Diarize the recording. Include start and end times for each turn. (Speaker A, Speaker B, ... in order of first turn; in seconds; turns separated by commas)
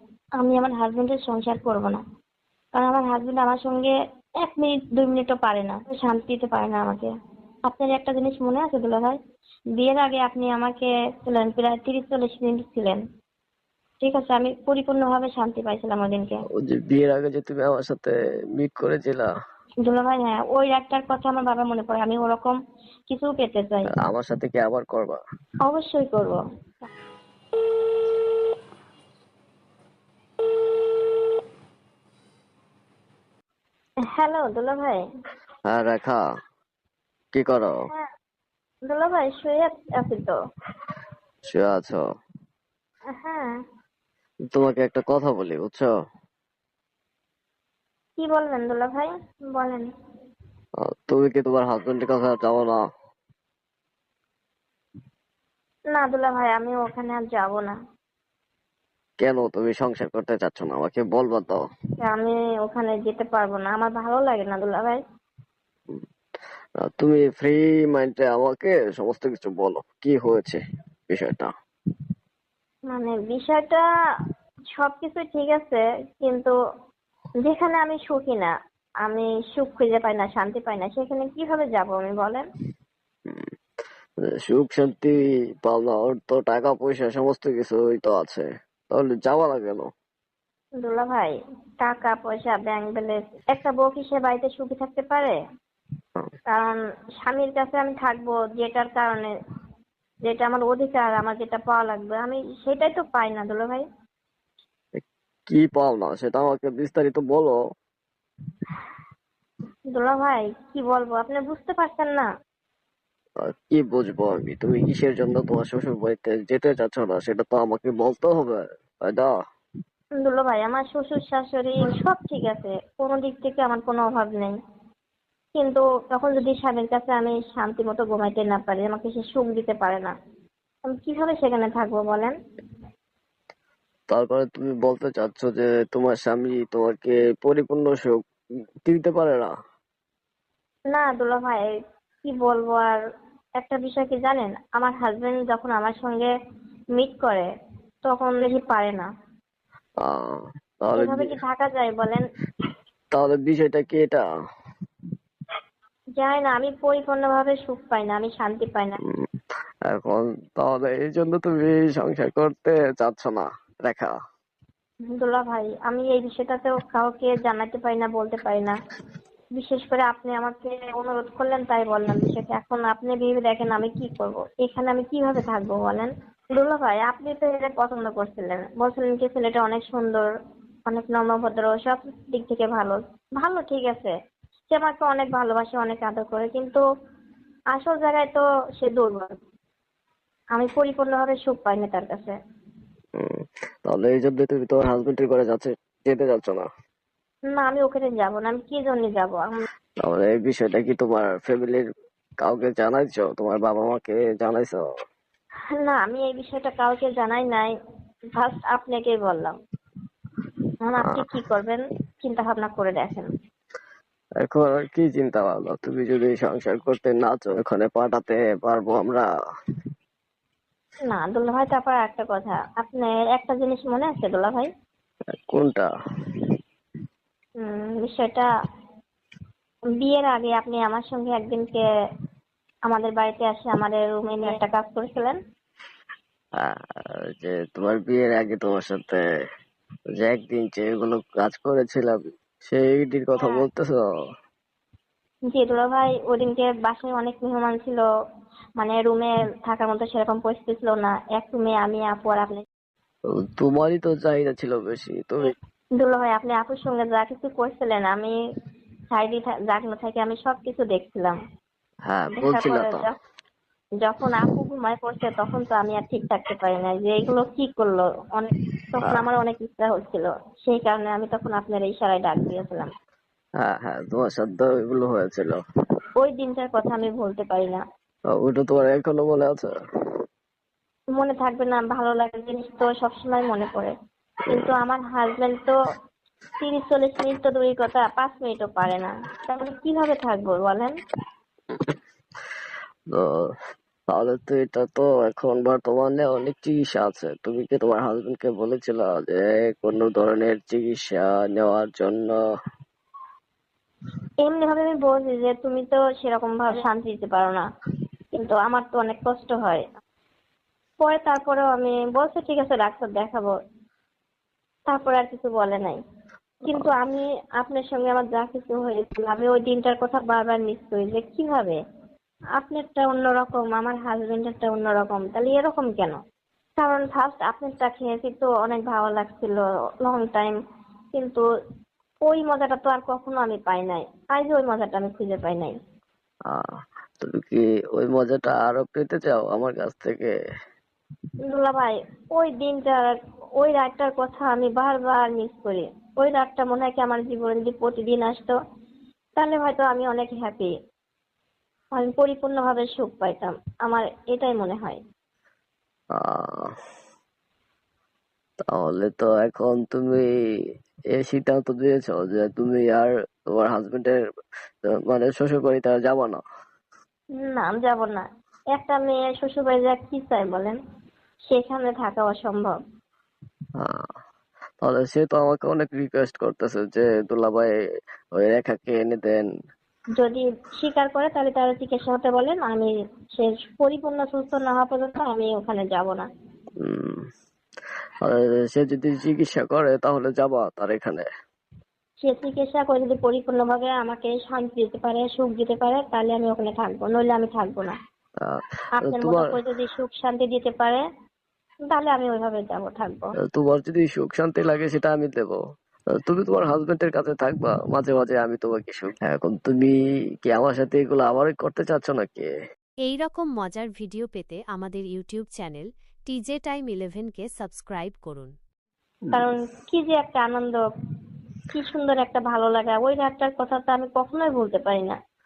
Speaker A: 0.4-2.0, Speaker A: 2.8-7.1, Speaker A: 7.7-9.2, Speaker A: 9.8-13.0, Speaker A: 14.0-16.4, Speaker B: 16.6-19.3, Speaker A: 19.9-22.6, Speaker A: 23.1-23.9, Speaker B: 24.0-25.2, Speaker A: 25.7-26.9, Speaker A: 34.1-35.0, Speaker B: 35.7-36.2, Speaker B: 37.3-37.7, Speaker A: 38.9-40.4, Speaker B: 41.5-42.0, Speaker A: 43.1-43.5, Speaker B: 44.5-45.9, Speaker A: 48.2-49.9, Speaker B: 50.8-52.8, Speaker A: 55.9-57.8, Speaker B: 59.2-61.6, Speaker A: 62.0-65.0, Speaker B: 66.8-71.5, Speaker A: 72.9-73.8, Speaker A: 74.8-76.5, Speaker A: 77.4-78.5, Speaker A: 79.0-82.4, Speaker B: 84.3-89.9, Speaker A: 90.8-95.4, Speaker A: 96.5-99.3, Speaker A: 100.2-103.8, Speaker B: 105.0-107.6, Speaker A: 109.9-112.3, Speaker B: 113.4-119.3, Speaker A: 120.2-124.5, Speaker A: 125.6-130.1, Speaker A: 131.0-132.3, Speaker B: 134.1-138.2, Speaker B: 138.8-139.5, Speaker A: 140.9-143.0, Speaker A: 143.6-146.3, Speaker A: 147.0-147.5, Speaker A: 148.1-149.1, Speaker B: 150.1-151.4, Speaker A: 151.0-152.3, Speaker B: 153.1-154.2, Speaker A: 156.2-159.0, Speaker B: 159.9-164.2, Speaker A: 165.2-168.8, Speaker A: 169.6-180.3, Speaker A: 180.9-184.1, Speaker A: 184.7-186.8, Speaker A: 187.7-189.3, Speaker A: 190.5-192.4, Speaker B: 193.2-196.7, Speaker A: 197.5-199.6, Speaker B: 200.0-201.8, Speaker B: 202.4-204.8, Speaker A: 205.7-207.7, Speaker A: 208.4-209.6, Speaker A: 210.9-213.3, Speaker B: 214.4-219.3, Speaker A: 221.1-224.7, Speaker B: 225.5-225.9, Speaker A: 227.6-228.5, Speaker A: 230.0-231.8, Speaker A: 232.9-235.4, Speaker B: 236.6-236.9, Speaker B: 237.4-239.2, Speaker B: 240.2-244.0, Speaker A: 245.5-248.1, Speaker A: 248.8-252.6, Speaker B: 253.3-255.5, Speaker A: 256.0-258.4, Speaker A: 259.1-261.4, Speaker B: 262.1-263.1, Speaker A: 262.4-263.1, Speaker A: 264.0-272.9, Speaker B: 273.6-275.6, Speaker A: 276.2-277.8, Speaker B: 278.3-279.7, Speaker A: 281.2-283.9, Speaker A: 284.5-285.7, Speaker A: 286.6-290.9, Speaker B: 294.1-302.4, Speaker A: 304.4-307.6, Speaker A: 308.4-309.8, Speaker A: 311.0-313.5, Speaker A: 314.9-316.0, Speaker B: 316.7-316.9, Speaker A: 316.7-321.8, Speaker A: 322.6-326.2, Speaker A: 326.8-330.6, Speaker A: 331.1-331.4, Speaker A: 332.3-335.8, Speaker B: 337.2-340.3, Speaker A: 341.5-348.5, Speaker A: 349.4-350.7, Speaker A: 351.9-355.0, Speaker B: 356.2-356.7, Speaker B: 358.7-360.3, Speaker B: 361.1-364.2, Speaker B: 364.8-366.4, Speaker A: 367.4-370.8, Speaker A: 371.5-372.8, Speaker B: 373.8-374.1, Speaker B: 374.8-377.7, Speaker B: 378.4-379.5, Speaker A: 380.2-386.3, Speaker B: 386.8-387.2, Speaker B: 388.2-391.3, Speaker A: 392.2-398.0, Speaker B: 398.5-399.5, Speaker A: 399.0-401.0, Speaker A: 401.9-403.3, Speaker B: 403.5-405.6, Speaker B: 406.2-412.5, Speaker C: 413.0-418.5, Speaker A: 419.3-420.8, Speaker A: 421.7-425.2